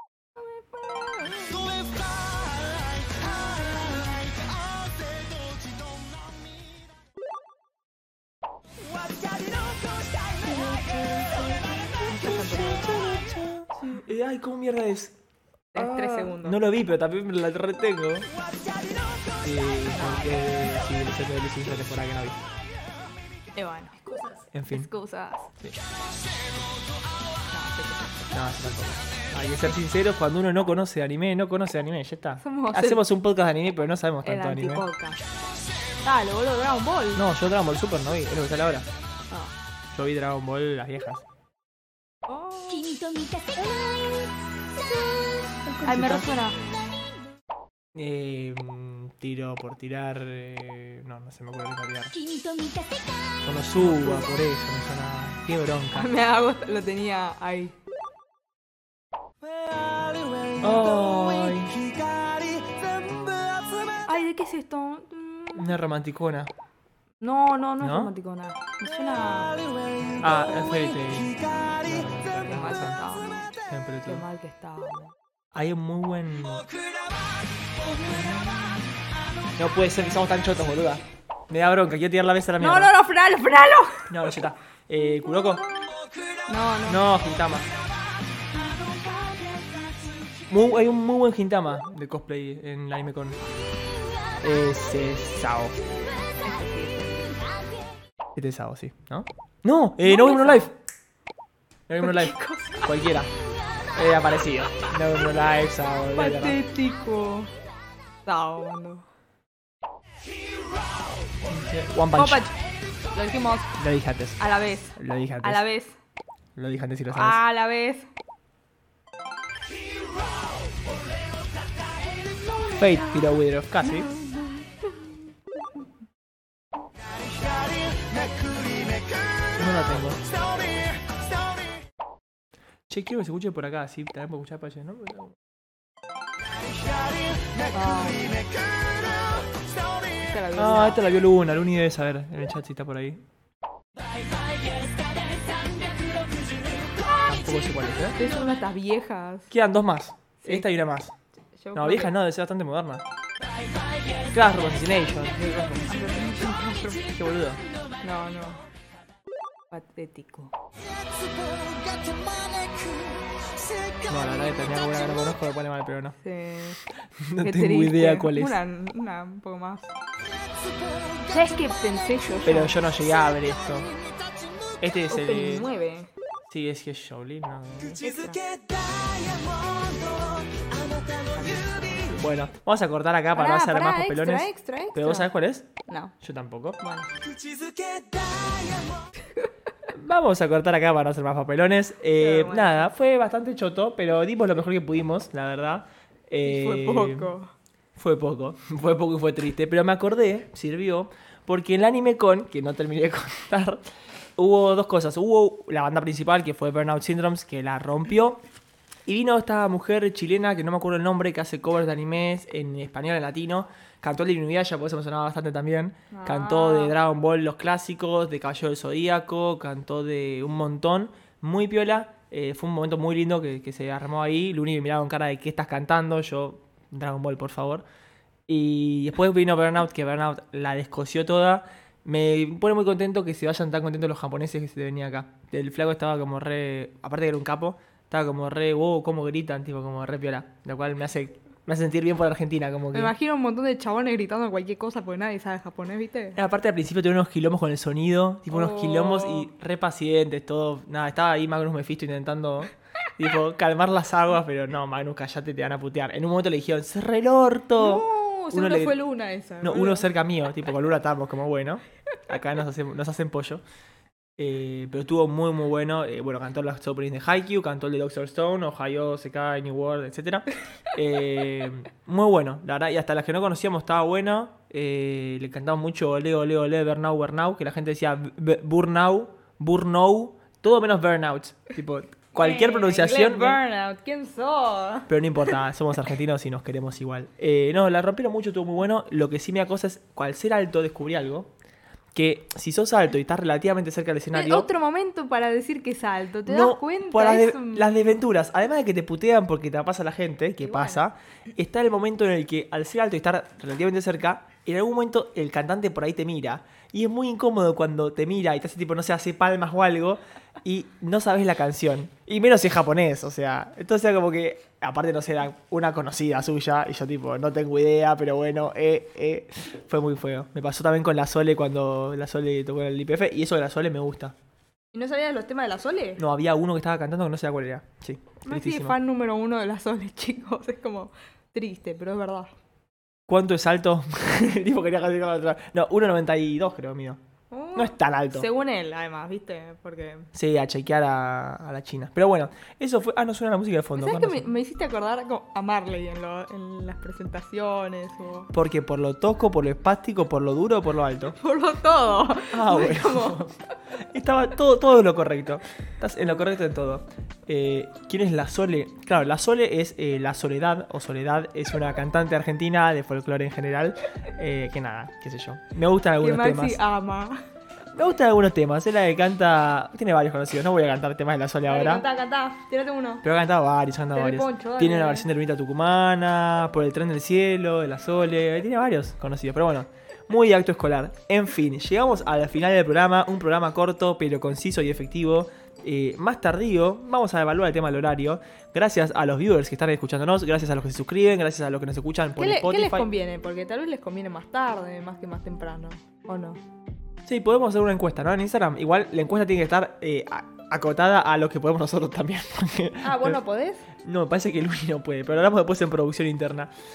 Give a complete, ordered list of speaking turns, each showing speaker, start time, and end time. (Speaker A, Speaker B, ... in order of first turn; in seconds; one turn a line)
Speaker A: 0.5-1.9
Speaker B: 10.4-15.1
Speaker A: 12.1-13.1
Speaker A: 15.7-16.6
Speaker B: 15.7-18.3
Speaker B: 19.4-22.4
Speaker A: 19.9-20.4
Speaker A: 23.5-25.5
Speaker B: 24.5-24.9
Speaker A: 27.5-28.3
Speaker B: 28.3-34.8
Speaker A: 32.4-33.0
Speaker A: 34.2-35.2
Speaker A: 36.0-37.2
Speaker B: 37.1-38.9
Speaker B: 39.9-41.2
Speaker A: 42.3-44.0
Speaker A: 45.0-46.6
Speaker B: 45.6-46.3
Speaker B: 47.9-52.2
Speaker B: 53.4-56.1
Speaker A: 53.8-54.4
Speaker A: 56.0-57.7
Speaker B: 60.6-61.8
Speaker A: 64.1-65.7
Speaker B: 65.5-66.5
Speaker A: 67.2-69.5
Speaker B: 67.8-68.1
Speaker B: 70.2-73.0
Speaker A: 72.5-73.5
Speaker B: 73.7-74.2
Speaker A: 74.0-75.1
Speaker B: 75.5-76.6
Speaker B: 78.0-78.9
Speaker B: 79.6-82.9
Speaker A: 82.6-84.1
Speaker B: 84.1-85.6
Speaker A: 86.5-87.0
Speaker B: 86.8-87.7
Speaker B: 90.5-93.4
Speaker B: 94.4-95.8
Speaker A: 96.4-97.5
Speaker B: 98.3-100.7
Speaker A: 100.0-100.7
Speaker B: 101.9-103.3
Speaker A: 102.0-102.8
Speaker B: 103.9-106.6
Speaker A: 106.1-107.5
Speaker A: 108.2-109.0
Speaker B: 111.5-112.4
Speaker A: 112.1-112.5
Speaker A: 113.1-113.7
Speaker B: 113.8-114.4
Speaker A: 114.4-116.0
Speaker B: 115.0-115.6
Speaker B: 116.5-117.4
Speaker A: 117.1-118.1
Speaker B: 122.8-124.1
Speaker A: 123.8-124.6
Speaker B: 129.6-130.3
Speaker B: 132.9-135.3
Speaker A: 137.7-138.4
Speaker A: 140.2-141.0
Speaker B: 140.5-143.2
Speaker B: 147.2-148.2
Speaker A: 148.2-149.5
Speaker B: 149.5-151.1
Speaker A: 151.6-152.2
Speaker B: 151.7-153.0
Speaker B: 154.3-156.0
Speaker A: 155.9-157.1
Speaker B: 157.1-157.6
Speaker A: 158.0-158.6
Speaker A: 159.7-160.5
Speaker B: 164.1-166.2
Speaker A: 166.2-166.8
Speaker B: 167.2-168.6
Speaker A: 167.4-169.9
Speaker A: 171.3-172.7
Speaker B: 172.4-173.9
Speaker B: 174.8-175.7
Speaker A: 175.1-176.1
Speaker B: 176.5-178.1
Speaker A: 178.0-178.4
Speaker A: 181.3-182.2
Speaker B: 182.2-185.7
Speaker A: 183.3-185.3
Speaker A: 185.9-186.1
Speaker B: 186.2-186.8
Speaker A: 186.8-187.1
Speaker B: 189.9-197.3
Speaker A: 192.2-192.9
Speaker A: 196.4-197.5
Speaker B: 197.9-203.8
Speaker B: 204.4-208.4
Speaker B: 209.1-227.8
Speaker A: 216.1-216.9
Speaker B: 228.5-243.1
Speaker A: 242.9-246.4
Speaker B: 246.3-259.0
Speaker A: 248.5-249.5
Speaker A: 257.8-260.1
Speaker B: 259.6-263.6
Speaker B: 264.4-283.6
Speaker A: 282.3-285.1
Speaker B: 285.1-291.5
Speaker B: 292.1-294.7
Speaker A: 294.3-298.1
Speaker B: 296.4-324.3
Speaker A: 300.6-301.0
Speaker A: 324.9-326.2
Speaker B: 326.2-329.0
Speaker A: 328.4-332.5
Speaker B: 333.3-337.2
Speaker A: 337.5-340.3
Speaker B: 337.7-338.5
Speaker B: 340.3-344.4
Speaker A: 343.9-348.5
Speaker B: 348.5-351.4
Speaker A: 351.4-353.4
Speaker B: 352.5-353.5
Speaker B: 354.1-366.8
Speaker A: 366.2-367.4
Speaker B: 367.9-372.1
Speaker A: 371.6-373.2
Speaker B: 373.2-393.1
Speaker A: 374.1-375.3
Speaker A: 392.4-396.6
Speaker B: 397.2-403.4
Speaker A: 403.0-403.9
Speaker B: 404.0-406.7